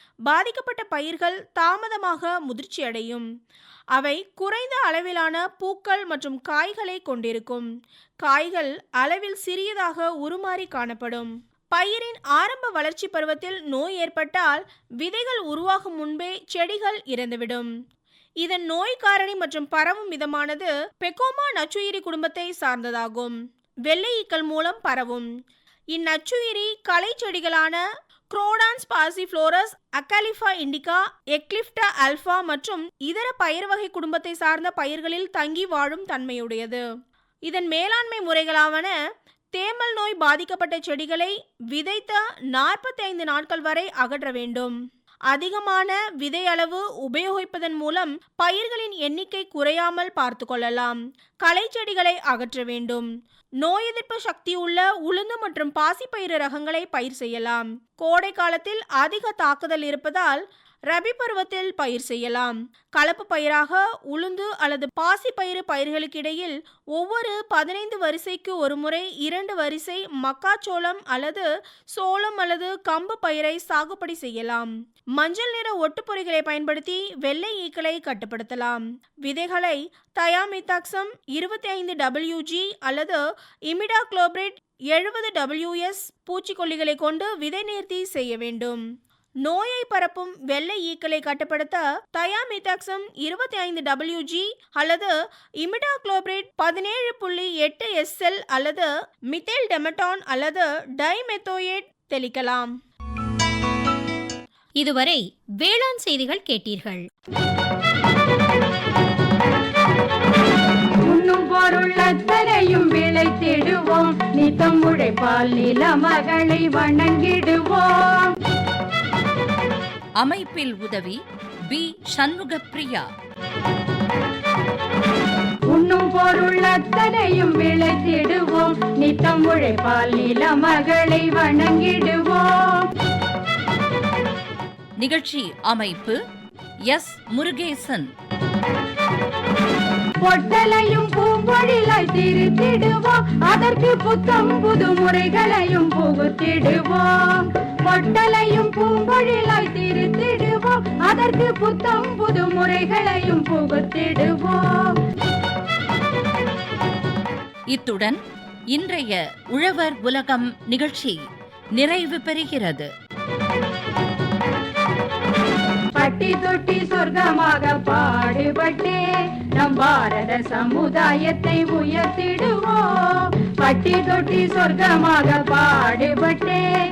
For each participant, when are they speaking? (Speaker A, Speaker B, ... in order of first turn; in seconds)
Speaker A: 0.3-3.2, 3.9-7.7, 8.2-17.7, 18.4-23.4, 23.9-25.3, 25.9-27.8, 28.3-36.8, 37.5-38.9, 39.5-44.7, 45.3-53.1, 53.6-88.8, 89.4-102.7
Speaker B: 104.8-107.0
Speaker C: 111.0-118.3, 125.7-132.9, 140.2-154.9, 166.0-169.0, 169.6-176.6
Speaker D: 120.2-123.0, 135.0-136.2, 136.9-138.1, 157.7-158.2, 158.7-161.2, 161.8-162.9